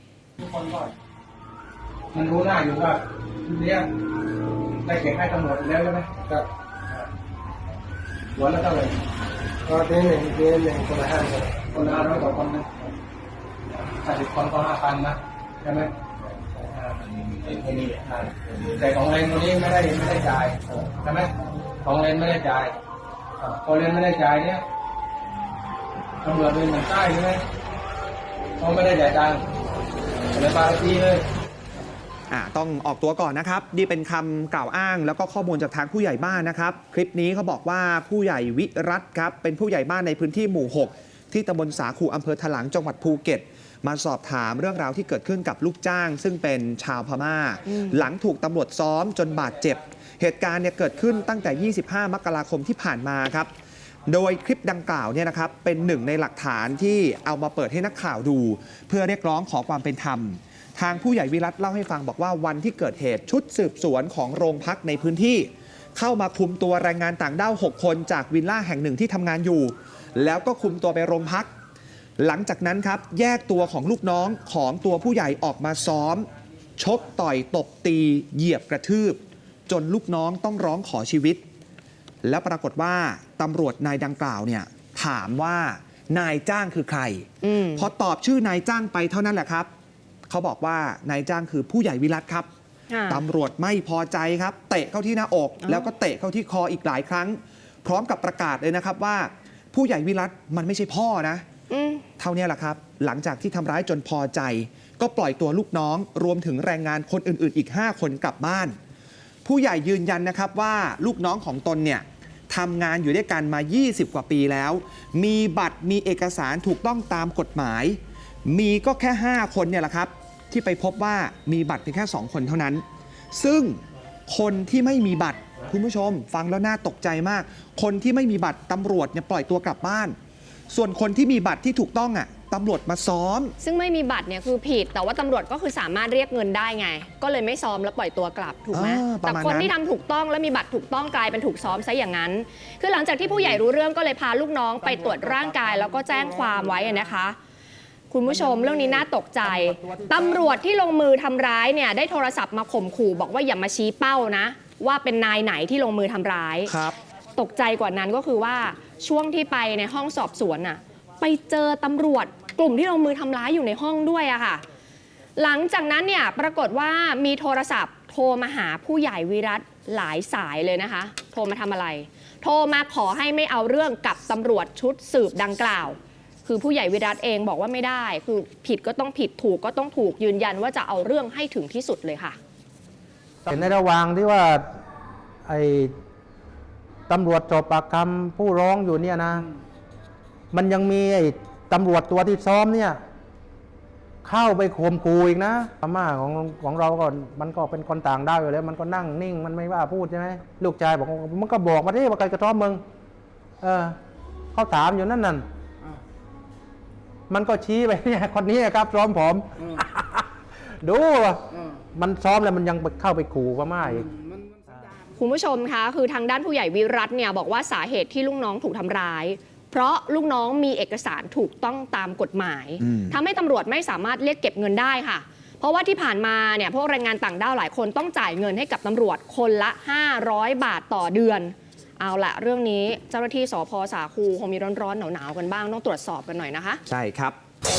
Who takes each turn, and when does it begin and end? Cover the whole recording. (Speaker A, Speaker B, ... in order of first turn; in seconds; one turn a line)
Speaker A: 0.4-0.9
Speaker A: 2.1-3.9
Speaker A: 4.8-7.1
Speaker A: 8.4-9.0
Speaker A: 9.7-12.9
Speaker A: 14.0-15.9
Speaker A: 16.5-22.8
Speaker A: 23.4-24.6
Speaker A: 26.2-27.4
Speaker A: 28.6-29.4
Speaker A: 30.3-31.2
Speaker B: 32.3-53.5
Speaker B: 54.1-71.5
Speaker B: 72.2-81.4
Speaker B: 82.2-89.7
Speaker C: 87.4-87.9
Speaker B: 90.3-92.5
Speaker C: 92.9-93.2
Speaker B: 93.1-101.5
Speaker C: 101.7-102.0
Speaker B: 102.2-108.8
Speaker B: 109.5-122.8
Speaker B: 123.3-130.2
Speaker B: 130.7-133.5
Speaker C: 133.6-147.4
Speaker B: 138.7-139.7
Speaker C: 148.1-156.7
Speaker D: 149.7-150.1
Speaker B: 156.7-157.0
Speaker C: 157.4-164.6
Speaker C: 165.4-182.4
Speaker D: 183.4-184.7
Speaker D: 185.5-185.9
Speaker D: 187.1-189.5
Speaker D: 190.5-193.0
Speaker D: 194.2-202.8
Speaker D: 203.6-204.0
Speaker D: 204.5-205.4
Speaker D: 207.3-210.3
Speaker D: 210.8-214.1
Speaker C: 215.2-236.8
Speaker B: 222.8-223.1
Speaker B: 236.9-237.4